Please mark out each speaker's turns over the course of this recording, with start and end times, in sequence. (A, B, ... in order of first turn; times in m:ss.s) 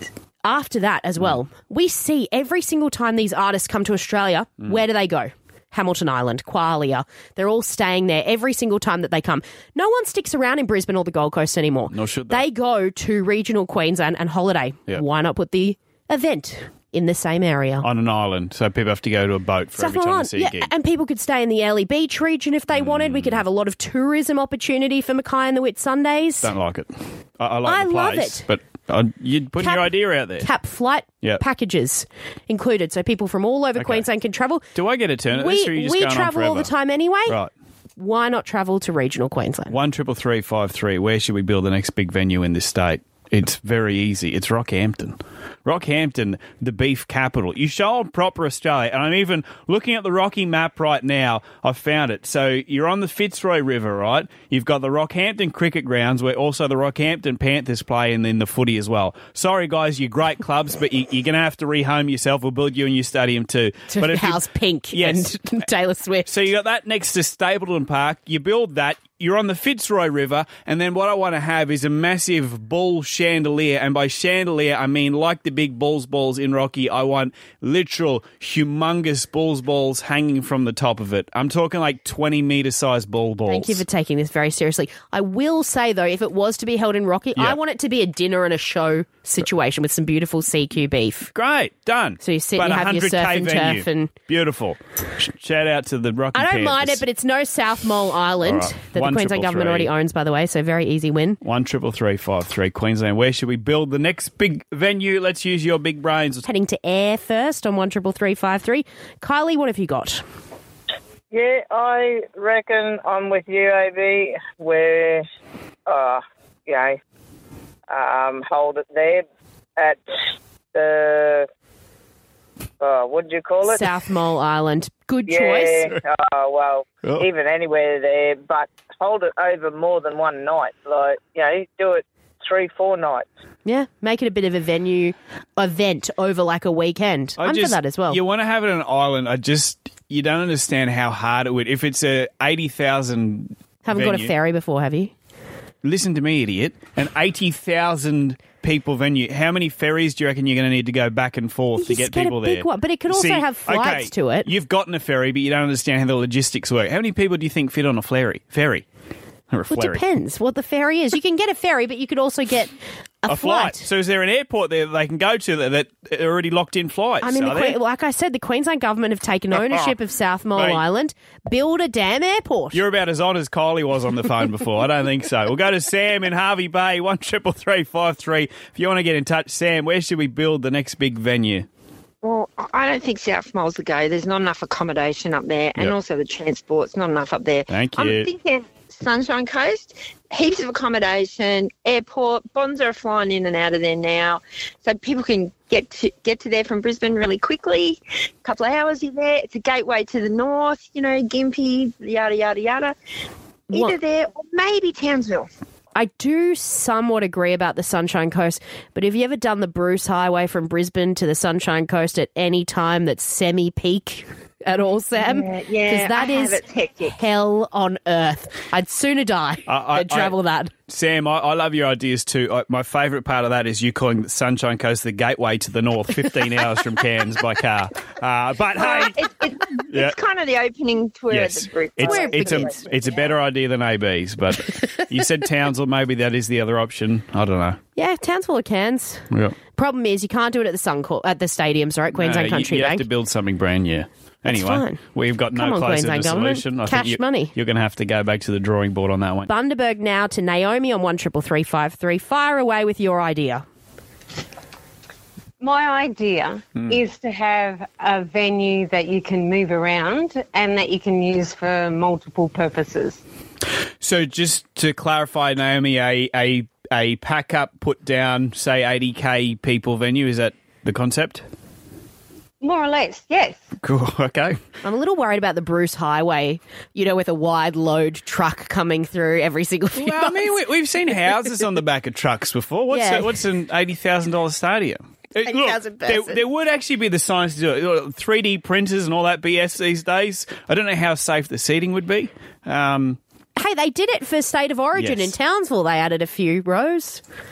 0:00.4-0:17.9 A
0:11.9-0:12.4 B
0:17.8-0:20.7 B
0:19.8-0:26.5 A
0:22.7-0:23.4 B
0:26.4-0:30.5 B
0:27.7-0:28.5 A
0:29.6-0:34.7 A
0:33.8-0:34.0 B
0:34.7-0:36.7 B
0:35.3-0:37.4 A
0:38.0-0:39.8 A
0:39.7-1:05.3 B
1:03.9-1:06.3 A
1:06.3-1:23.8 B
1:23.5-1:31.3 A
1:31.3-1:37.0 B
1:32.2-1:34.1 A
1:36.4-1:41.4 A
1:38.4-1:39.9 B
1:41.4-1:46.4 B
1:46.4-1:50.2 A
1:51.3-1:55.2 C
1:55.9-1:57.0 C
1:57.9-1:59.2 C
1:59.8-2:00.0 C
2:00.7-2:01.5 C
2:02.8-2:03.9 C
2:03.6-2:05.9 A
2:05.3-2:13.3 C
2:13.7-2:18.2 A
2:17.4-2:24.3 B
2:23.8-2:25.1 A
2:25.8-2:38.8 B
2:31.8-2:34.5 A
2:39.5-2:40.0 B
2:39.7-2:42.7 A
2:43.2-2:43.9 A
2:43.3-2:47.8 B
2:47.2-2:52.8 A
2:50.6-2:50.8 B
2:52.7-3:01.7 B
3:02.2-3:23.0 D
3:07.7-3:08.3 B
3:23.7-3:25.5 D
3:26.0-3:40.7 A
3:35.2-3:37.2 D
3:39.7-3:40.4 B
3:40.9-3:49.3 B
3:48.8-3:53.3 D
3:49.9-3:50.2 B
3:51.3-3:57.8 B
3:52.0-3:52.8 A
3:58.0-3:59.2 A
3:59.8-4:03.0 A
4:02.1-4:09.5 B
4:04.5-4:05.0 A
4:05.6-4:07.5 A
4:09.5-4:13.6 A
4:15.6-4:23.2 E
4:24.0-4:31.5 B
4:32.6-4:33.6 D
4:33.8-4:34.6 B
4:34.8-4:40.6 A
4:40.0-4:53.2 B
4:42.9-4:43.4 A
4:45.4-4:46.4 A
4:53.6-4:57.2 A
4:55.0-4:55.3 B